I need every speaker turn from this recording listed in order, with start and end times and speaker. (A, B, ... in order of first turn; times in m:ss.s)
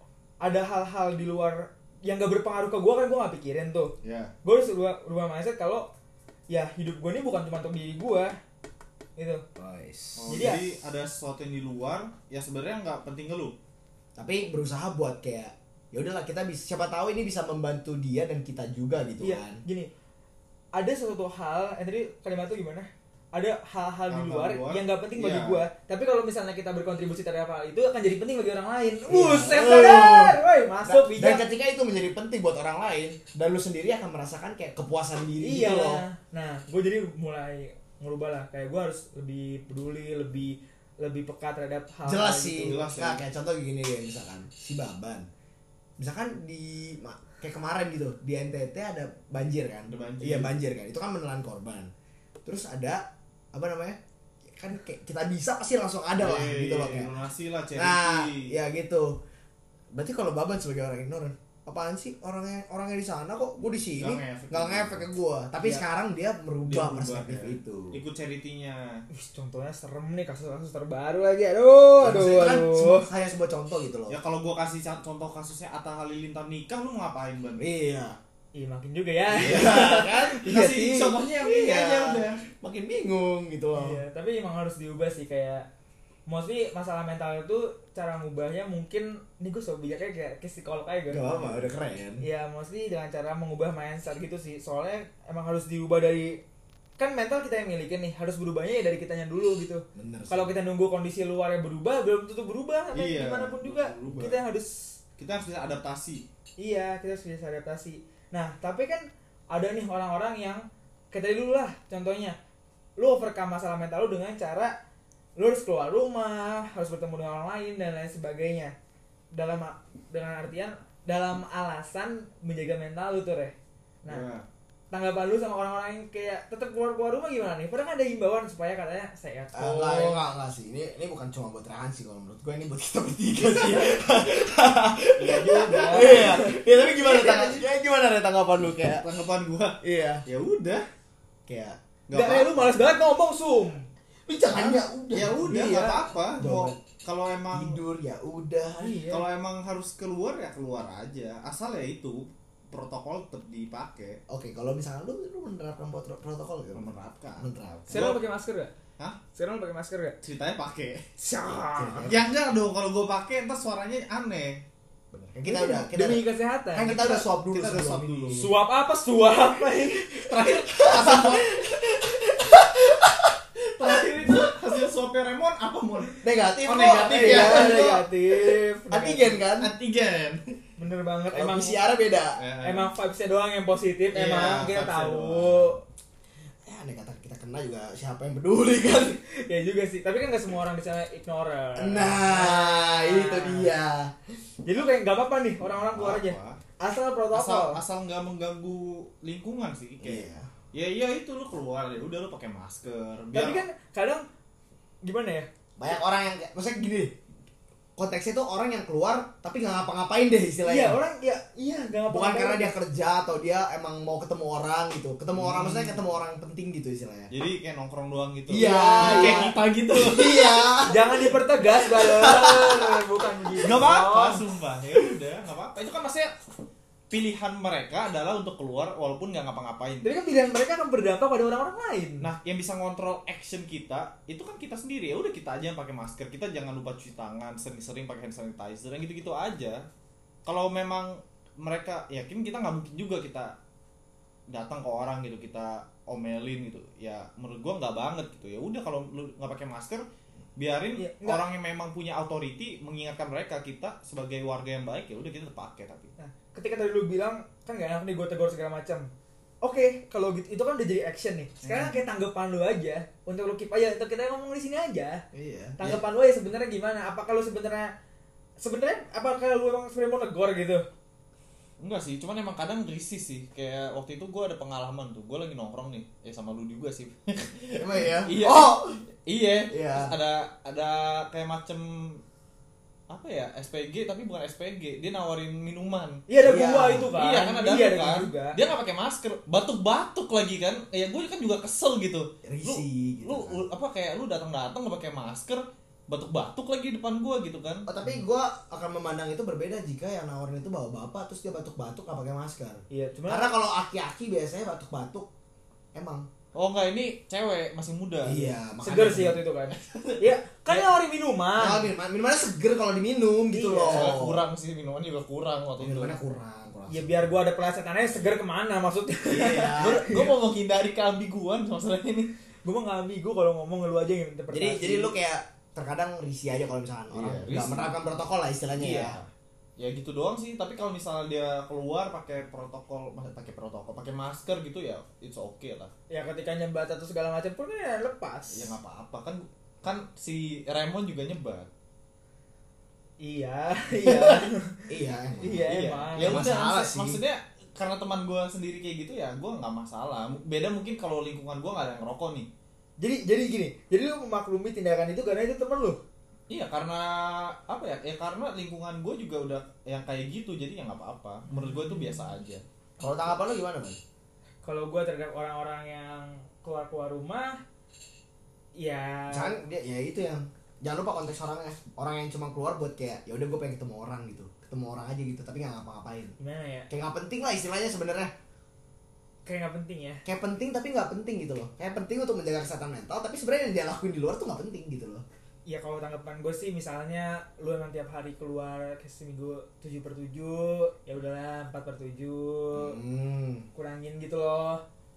0:00.4-0:03.9 A
0:04.0-0:04.3 B
0:04.4-0:05.9 A
0:06.5-0:08.4 A
0:09.2-0:09.4 A
0:09.6-0:10.5 C
0:10.2-0:13.5 B
0:10.3-0:10.6 A
0:14.2-0:19.6 C
0:19.2-0:19.9 A
0:20.7-0:31.4 A
0:24.1-0:25.6 B
0:29.1-0:36.0 C
0:35.4-0:42.8 A
0:42.0-0:45.3 C
0:42.6-0:43.2 B
0:46.0-0:51.9 C
0:49.9-0:50.5 B
0:52.4-0:54.0 C
0:54.5-0:57.1 C
0:56.2-0:58.5 B
0:57.7-0:59.2 C
0:59.9-1:08.0 C
1:04.0-1:05.0 B
1:06.7-1:09.0 B
1:09.1-1:13.1 A
1:12.0-1:14.2 C
1:14.1-1:17.6 B
1:17.6-1:18.2 C
1:18.5-1:21.1 A
1:19.3-1:20.5 C
1:19.4-1:22.4 B
1:21.3-1:24.0 C
1:23.7-1:25.6 A
1:26.3-1:31.6 A
1:31.1-1:32.2 C
1:32.2-1:36.4 A
1:37.0-1:44.9 A
1:39.9-1:40.5 C
1:42.9-1:44.4 B
1:45.2-1:46.2 B
1:46.6-1:52.4 A
1:53.0-1:54.7 A
1:55.4-1:58.7 A
1:59.3-2:04.2 A
2:04.1-2:04.4 B
2:04.9-2:10.2 A
2:09.5-2:19.0 C
2:15.2-2:16.6 B
2:15.2-2:16.6 A
2:17.1-2:17.6 B
2:18.9-2:20.8 B
2:19.8-2:20.2 C
2:21.5-2:21.8 C
2:22.1-2:22.7 B
2:22.1-2:23.8 A
2:24.3-2:25.7 C
2:24.5-2:27.8 B
2:25.4-2:26.1 A
2:26.4-2:26.8 C
2:27.5-2:29.0 C
2:28.8-2:29.2 A
2:29.1-2:34.2 B
2:34.3-2:38.1 C
2:36.7-2:38.2 B
2:37.9-2:38.7 A
2:39.3-2:40.2 A
2:40.2-2:41.0 B
2:41.2-2:42.1 A
2:41.7-2:42.3 C
2:42.0-2:44.6 B
2:45.1-2:48.5 C
2:45.4-2:47.2 A
2:47.0-2:48.5 B
2:48.3-2:50.3 A
2:49.9-2:53.3 C
2:50.2-2:51.7 B
2:53.6-2:57.8 B
2:56.2-2:59.7 C
2:57.0-2:59.4 A
2:59.6-3:00.5 B
3:00.8-3:01.9 A
3:01.3-3:02.4 C
3:02.4-3:02.9 B
3:02.6-3:05.8 A
3:04.1-3:05.7 B
3:06.6-3:09.2 C
3:09.3-3:13.7 A
3:11.8-3:14.2 C
3:14.6-3:17.8 A
3:15.8-3:16.6 B
3:17.3-3:23.6 B
3:20.0-3:20.5 C
3:23.3-3:24.2 A
3:25.0-3:25.5 A
3:25.8-3:27.1 C
3:28.0-3:31.0 C
3:30.6-3:32.7 A
3:32.1-3:37.3 C
3:35.4-3:36.0 B
3:37.3-3:40.7 B
3:38.5-3:43.0 C
3:38.6-3:39.5 A
3:40.9-3:44.4 A
3:43.6-3:46.3 B
3:47.1-3:50.1 B
3:50.0-3:52.3 A
3:52.2-3:59.8 B
4:00.4-4:03.5 B
4:04.5-4:10.0 B
4:10.6-4:16.1 B
4:11.0-4:11.4 A
4:16.2-4:19.1 A
4:19.6-4:25.2 A
4:21.6-4:22.0 B
4:25.3-4:25.8 C
4:25.8-4:27.9 A
4:28.6-4:30.8 A
4:31.8-4:42.2 B
4:37.8-4:39.0 C
4:39.7-4:40.2 C
4:43.1-4:46.3 B
4:46.3-4:48.6 A
4:46.4-4:47.1 C
4:47.1-4:57.9 B
4:52.4-4:53.6 C
4:57.9-5:05.3 C
5:02.9-5:03.5 A
5:05.9-5:06.3 C
5:06.5-5:08.5 B
5:08.2-5:09.4 C
5:08.8-5:11.9 A
5:09.7-5:10.2 B
5:11.6-5:14.4 C
5:13.5-5:14.2 A
5:13.9-5:16.2 B
5:15.8-5:17.4 C
5:16.9-5:20.3 A
5:19.3-5:22.3 B
5:19.3-5:20.2 C
5:22.6-5:25.1 A
5:24.5-5:29.2 C
5:27.1-5:28.0 B
5:28.8-5:35.9 B
5:36.1-5:38.8 A
5:38.5-5:41.7 B
5:43.2-5:44.9 A
5:44.0-5:44.5 B
5:44.9-5:47.2 C
5:45.4-5:46.5 A
5:45.6-5:52.5 B
5:53.0-5:56.0 A
5:56.5-6:02.6 B
6:01.5-6:02.3 A
6:03.0-6:04.0 C
6:04.6-6:07.6 A
6:08.8-6:09.6 A
6:09.3-6:16.4 C
6:16.4-6:16.9 A
6:16.9-6:18.3 C
6:19.4-6:20.2 A
6:20.2-6:25.2 C
6:25.7-6:33.0 A
6:32.7-6:33.7 C
6:33.7-6:34.8 A